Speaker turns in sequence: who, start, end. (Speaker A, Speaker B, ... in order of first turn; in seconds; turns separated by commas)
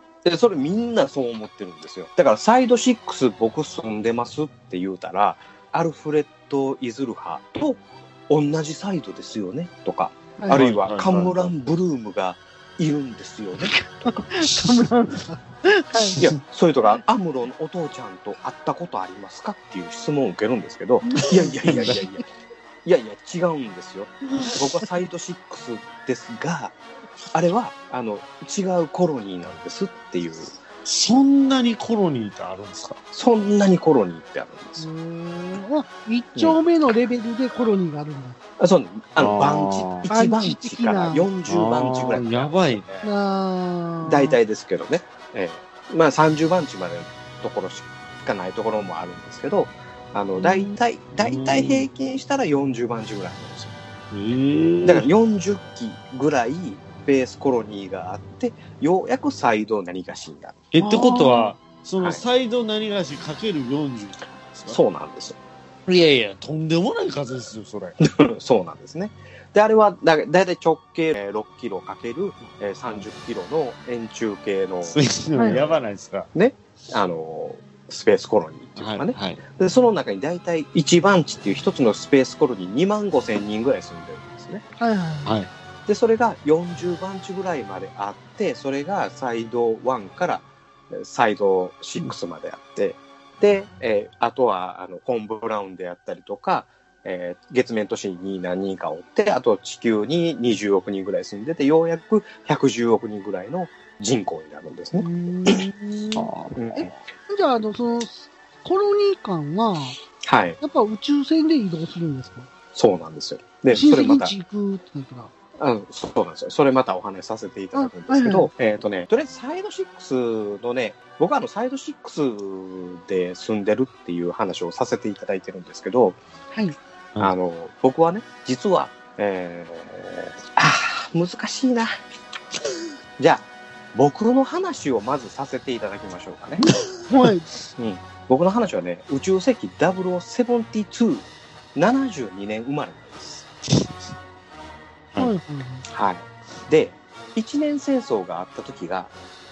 Speaker A: 0.2-14.4, Speaker B: 10.4-10.6, Speaker C: 10.5-11.8, Speaker B: 13.7-16.2, Speaker A: 16.2-22.2, Speaker B: 21.1-21.9, Speaker C: 21.7-22.0, Speaker A: 22.9-26.8, Speaker A: 27.3-30.5, Speaker C: 30.9-33.0, Speaker A: 33.1-34.9, Speaker B: 34.8-38.4, Speaker A: 38.6-43.1, Speaker C: 39.2-40.0, Speaker B: 40.1-41.3, Speaker C: 41.5-42.9, Speaker B: 43.0-44.4, Speaker A: 44.0-53.8, Speaker B: 50.4-50.8, Speaker C: 51.2-51.9, Speaker C: 54.1-55.1, Speaker A: 54.8-60.6, Speaker C: 60.7-64.8, Speaker B: 60.8-61.5, Speaker A: 64.7-65.4, Speaker C: 65.9-68.0, Speaker A: 68.0-75.8, Speaker C: 72.5-73.1, Speaker C: 74.9-76.3, Speaker B: 75.3-75.6, Speaker A: 76.3-84.6, Speaker C: 78.8-79.4, Speaker B: 84.8-85.3, Speaker C: 85.3-85.5, Speaker A: 85.9-105.1, Speaker B: 105.0-110.0, Speaker C: 106.2-106.6, Speaker A: 106.6-106.9, Speaker A: 110.2-110.6, Speaker B: 110.6-112.5, Speaker A: 112.8-114.3, Speaker B: 113.7-115.3, Speaker A: 115.6-126.2, Speaker B: 117.8-118.5, Speaker A: 127.2-131.9, Speaker A: 133.2-136.6, Speaker B: 137.0-137.5, Speaker A: 137.8-143.5, Speaker B: 145.2-145.8, Speaker A: 145.9-149.1